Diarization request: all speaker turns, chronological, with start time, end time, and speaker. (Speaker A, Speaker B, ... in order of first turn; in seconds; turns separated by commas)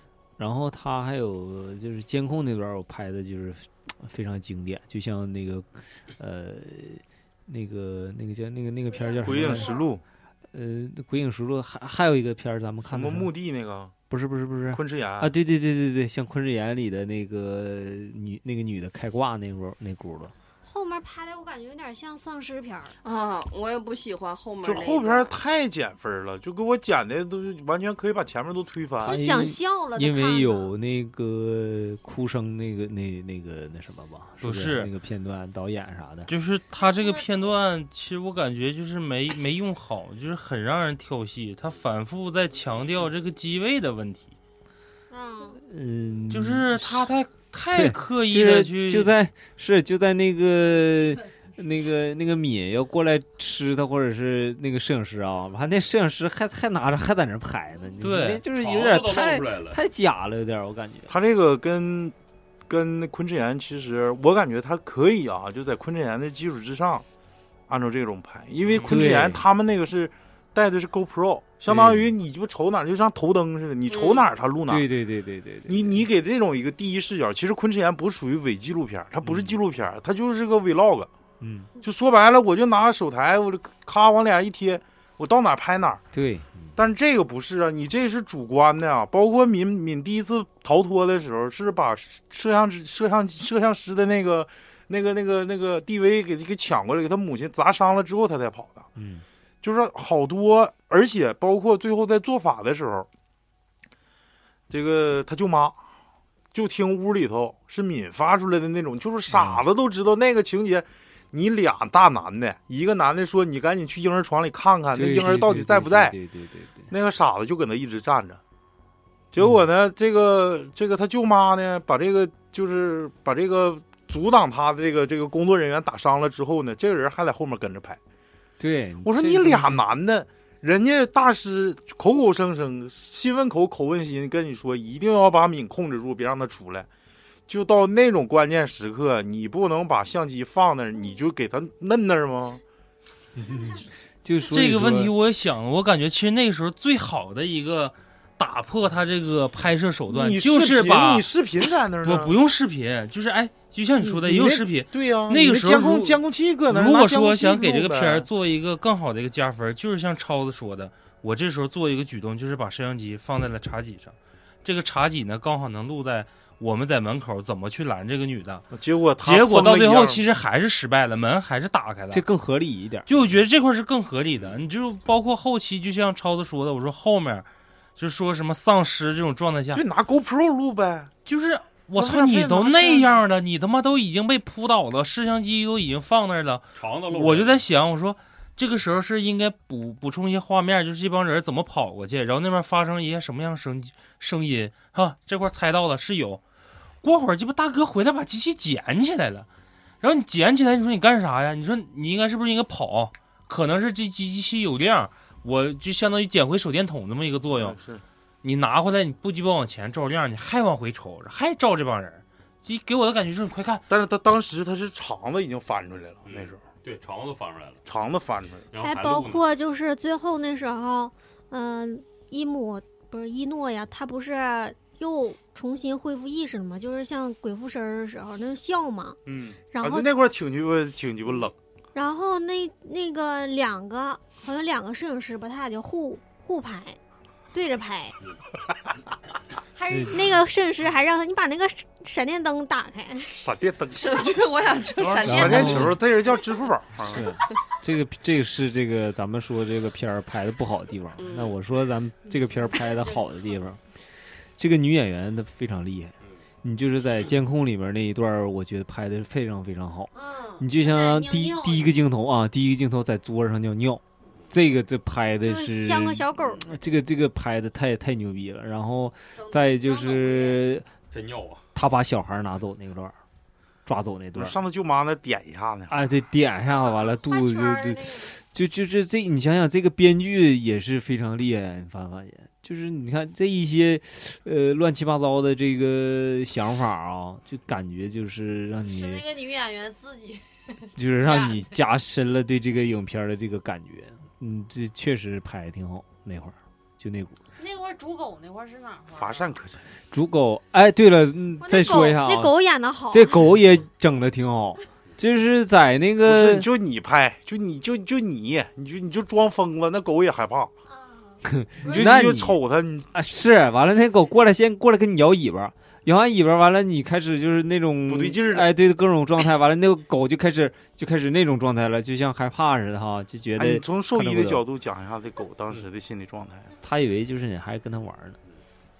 Speaker A: 0.4-9.8, Speaker B: 8.9-9.9, Speaker C: 9.2-10.0, Speaker A: 10.5-13.3, Speaker C: 12.8-13.9, Speaker A: 14.1-20.3, Speaker C: 14.7-15.3, Speaker B: 20.6-22.9, Speaker D: 23.0-25.3, Speaker C: 24.6-29.2, Speaker B: 29.0-30.7, Speaker A: 29.0-36.3, Speaker E: 34.4-34.9, Speaker E: 36.3-44.3, Speaker F: 36.8-37.6, Speaker B: 45.1-45.6, Speaker A: 45.5-47.1, Speaker E: 46.3-49.1, Speaker A: 47.7-61.1, Speaker E: 58.0-58.4, Speaker G: 58.5-59.8, Speaker C: 61.1-62.1, Speaker C: 62.7-67.0, Speaker C: 67.7-74.9, Speaker A: 68.8-69.4, Speaker A: 71.7-72.1, Speaker F: 73.9-74.2, Speaker A: 74.7-76.0, Speaker C: 75.7-81.1, Speaker A: 79.2-79.6, Speaker A: 81.4-81.7, Speaker C: 81.8-86.0, Speaker A: 86.1-86.8, Speaker C: 86.8-98.9, Speaker A: 99.0-99.2, Speaker C: 99.6-103.1, Speaker C: 104.7-105.8, Speaker C: 106.5-116.2, Speaker A: 109.3-109.6, Speaker A: 114.9-116.9, Speaker C: 116.9-118.4, Speaker C: 119.3-128.0, Speaker A: 128.6-129.8, Speaker C: 129.0-136.9, Speaker C: 137.5-142.6, Speaker A: 143.3-145.1, Speaker E: 144.5-151.3, Speaker C: 150.1-152.3, Speaker E: 152.0-168.6, Speaker C: 154.0-158.3, Speaker C: 168.7-170.2, Speaker E: 169.2-172.2, Speaker A: 172.1-173.1, Speaker E: 173.1-179.8, Speaker C: 179.7-181.1, Speaker E: 181.2-196.4, Speaker C: 181.9-183.2, Speaker G: 186.7-187.6, Speaker E: 197.0-199.5, Speaker E: 200.0-207.8, Speaker C: 207.5-208.0, Speaker E: 208.4-213.8, Speaker C: 213.9-216.6, Speaker G: 216.2-217.8, Speaker C: 217.8-218.7, Speaker G: 218.7-219.4, Speaker B: 218.7-229.2, Speaker C: 229.2-231.5, Speaker B: 229.7-230.1, Speaker B: 231.9-237.0, Speaker B: 237.5-238.2, Speaker B: 239.8-243.4, Speaker A: 239.9-240.3, Speaker C: 243.3-247.2, Speaker D: 243.9-246.0, Speaker A: 245.2-246.0, Speaker A: 247.1-270.9, Speaker D: 251.2-251.5, Speaker F: 260.1-262.0, Speaker B: 265.4-266.8, Speaker F: 269.3-270.7, Speaker G: 271.1-271.6, Speaker A: 271.7-273.1, Speaker A: 273.8-274.6, Speaker C: 274.3-276.0, Speaker A: 275.9-289.4, Speaker B: 276.7-278.3, Speaker F: 288.8-291.8, Speaker A: 290.9-297.4, Speaker F: 297.6-299.5, Speaker C: 299.1-299.8, Speaker A: 300.1-302.5, Speaker B: 301.6-303.6, Speaker A: 303.1-306.7, Speaker C: 306.2-310.7, Speaker B: 310.9-311.3, Speaker A: 311.4-312.6, Speaker C: 311.8-313.1, Speaker A: 313.1-324.6, Speaker C: 318.1-318.7, Speaker C: 323.6-326.7, Speaker A: 326.8-328.4